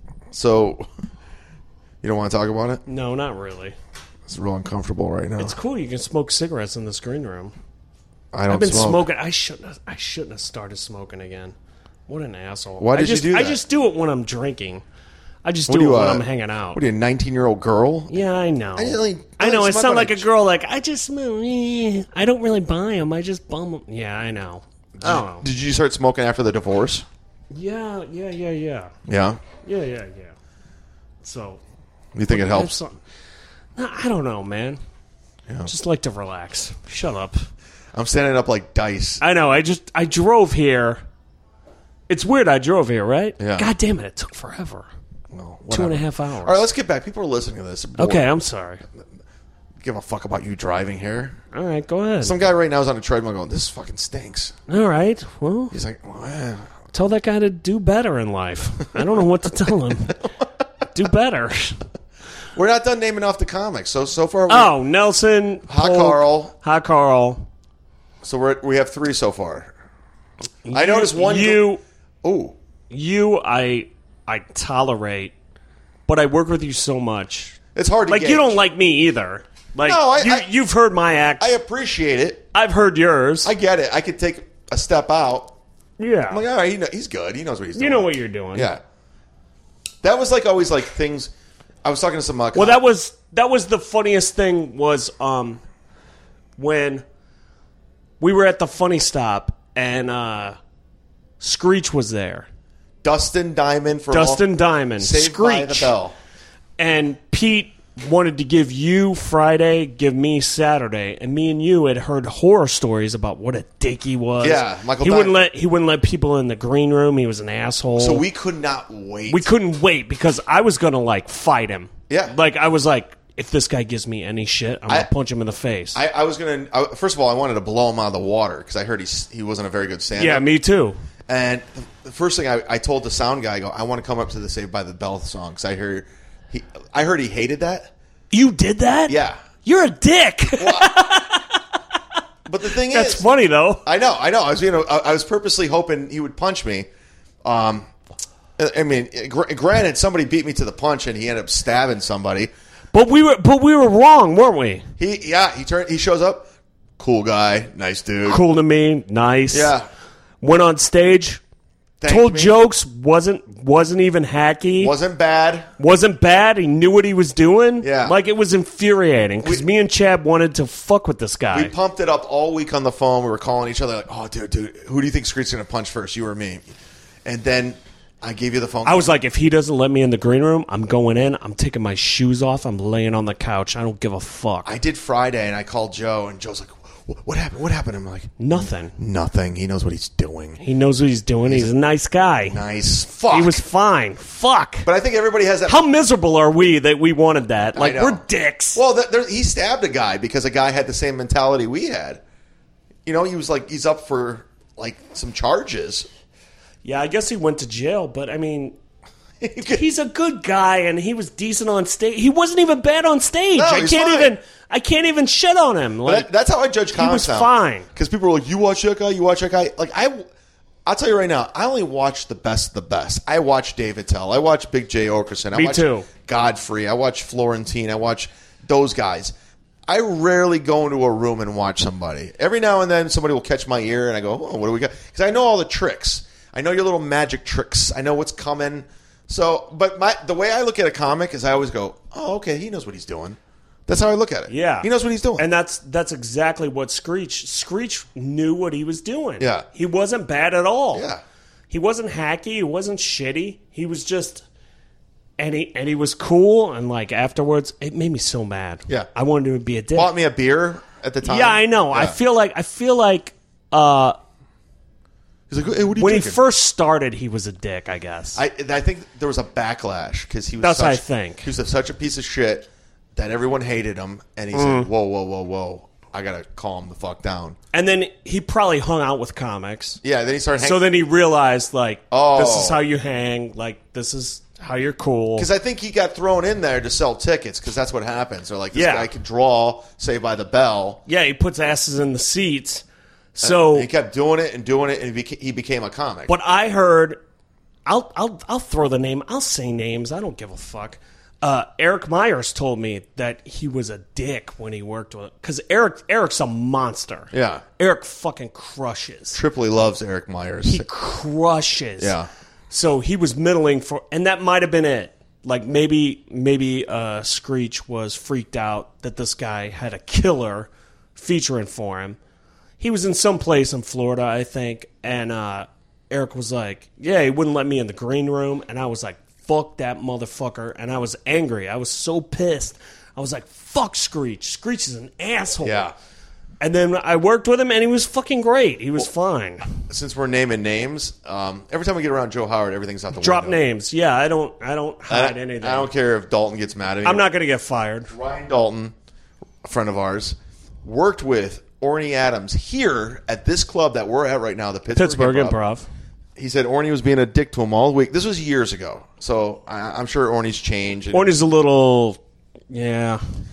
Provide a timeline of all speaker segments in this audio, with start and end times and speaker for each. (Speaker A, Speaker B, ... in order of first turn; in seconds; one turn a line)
Speaker A: 0.3-0.8
Speaker A: 2.0-2.8
Speaker B: 2.9-3.7
Speaker A: 4.3-5.5
Speaker B: 5.4-7.5
Speaker A: 8.3-9.0
Speaker B: 8.5-11.5
Speaker B: 12.1-14.8
Speaker A: 12.8-13.6
Speaker B: 15.4-16.8
Speaker A: 15.7-18.2
Speaker B: 18.1-25.4
Speaker A: 18.8-20.2
Speaker A: 25.0-27.1
Speaker B: 27.5-28.9
Speaker A: 29.1-29.4
Speaker B: 29.6-30.3
Speaker B: 31.2-31.6
Speaker A: 32.1-32.7
Speaker B: 32.3-33.0
Speaker B: 33.8-34.8
Speaker B: 35.6-37.5
Speaker A: 37.9-39.2
Speaker B: 39.2-41.0
Speaker B: 42.1-44.9
Speaker A: 43.4-43.7
Speaker A: 45.3-48.2
Speaker B: 45.7-46.6
Speaker B: 48.0-48.8
Speaker A: 49.8-51.4
Speaker B: 51.5-52.4
Speaker A: 52.2-54.5
Speaker B: 54.7-55.7
Speaker A: 55.7-56.7
Speaker B: 56.9-60.2
Speaker B: 60.9-61.8
Speaker A: 62.5-64.7
Speaker B: 64.5-67.5
Speaker A: 65.7-66.5
Speaker A: 68.2-69.7
Speaker B: 70.6-71.8
Speaker A: 70.7-71.7
Speaker A: 72.2-72.5
Speaker B: 72.9-75.3
Speaker B: 76.1-81.5
Speaker A: 77.7-78.6
Speaker A: 79.8-80.5
Speaker A: 81.4-82.5
Speaker B: 82.5-83.5
Speaker A: 83.4-85.5
Speaker B: 86.0-86.4
Speaker A: 86.3-88.8
Speaker B: 87.7-88.7
Speaker A: 90.0-91.3
Speaker A: 91.8-92.8
Speaker B: 92.5-95.6
Speaker B: 96.6-97.0
Speaker B: 98.2-100.6
Speaker B: 101.4-102.5
Speaker A: 103.0-104.4
Speaker B: 104.1-105.9
Speaker A: 105.0-106.1
Speaker B: 106.8-118.2
Speaker A: 114.4-115.3
Speaker A: 118.0-119.5
Speaker B: 119.3-126.0
Speaker A: 122.1-122.3
Speaker A: 125.9-130.4
Speaker B: 130.2-131.0
Speaker A: 131.3-137.9
Speaker B: 138.3-141.8
Speaker A: 139.1-139.4
Speaker A: 140.6-141.0
Speaker A: 142.5-143.2
Speaker B: 142.8-143.8
Speaker A: 143.8-146.9
Speaker A: 147.4-147.9
Speaker A: 148.6-152.5
Speaker B: 152.9-154.9
Speaker A: 155.0-158.4
Speaker B: 158.2-159.7
Speaker A: 159.5-159.9
Speaker B: 160.4-161.4
Speaker A: 162.0-162.5
Speaker B: 162.1-164.9
Speaker A: 164.8-165.7
Speaker B: 165.8-171.7
Speaker A: 167.8-168.1
Speaker A: 171.5-176.6
Speaker A: 177.2-179.1
Speaker B: 178.8-184.7
Speaker A: 184.6-190.6
Speaker B: 188.4-188.9
Speaker B: 190.6-192.6
Speaker A: 191.4-191.7
Speaker A: 192.4-193.6
Speaker B: 193.3-194.9
Speaker A: 194.8-195.8
Speaker B: 195.7-198.8
Speaker A: 197.8-198.2
Speaker A: 198.7-202.2
Speaker A: 203.1-206.1
Speaker B: 206.8-208.8
Speaker A: 209.4-209.8
Speaker B: 209.7-216.3
Speaker A: 213.5-214.3
Speaker A: 216.0-220.2
Speaker B: 216.9-217.9
Speaker A: 220.8-229.3
Speaker B: 225.5-226.1
Speaker A: 229.9-245.4
Speaker B: 244.5-251.1
Speaker A: 249.4-249.7
Speaker A: 250.9-251.2
Speaker B: 251.7-254.4
Speaker B: 255.4-260.1
Speaker A: 259.9-262.2
Speaker B: 261.2-264.2
Speaker A: 265.5-266.4
Speaker B: 265.9-268.4
Speaker A: 268.3-277.6
Speaker B: 270.6-271.4
Speaker B: 274.5-274.9
Speaker B: 277.7-280.0
Speaker A: 280.0-280.8
Speaker B: 280.6-285.5
Speaker A: 282.1-282.8
Speaker A: 285.4-291.0
Speaker B: 288.7-289.1
Speaker B: 291.1-292.8
Speaker B: 293.4-293.9
Speaker A: 293.4-296.3
Speaker B: 296.3-297.2
Speaker B: 297.9-309.4
Speaker A: 307.3-307.6
Speaker A: 309.3-310.8
Speaker B: 310.7-312.2
Speaker A: 312.0-312.3
Speaker B: 312.7-322.2
Speaker B: 322.8-335.9
Speaker A: 335.6-335.9
Speaker B: 336.6-339.6
Speaker A: 339.9-343.6
Speaker B: 343.1-345.9
Speaker A: 345.1-347.2
Speaker B: 347.0-348.1
Speaker A: 348.1-348.9
Speaker A: 349.6-355.6
Speaker B: 354.9-355.9
Speaker A: 356.4-361.4
Speaker B: 361.1-363.2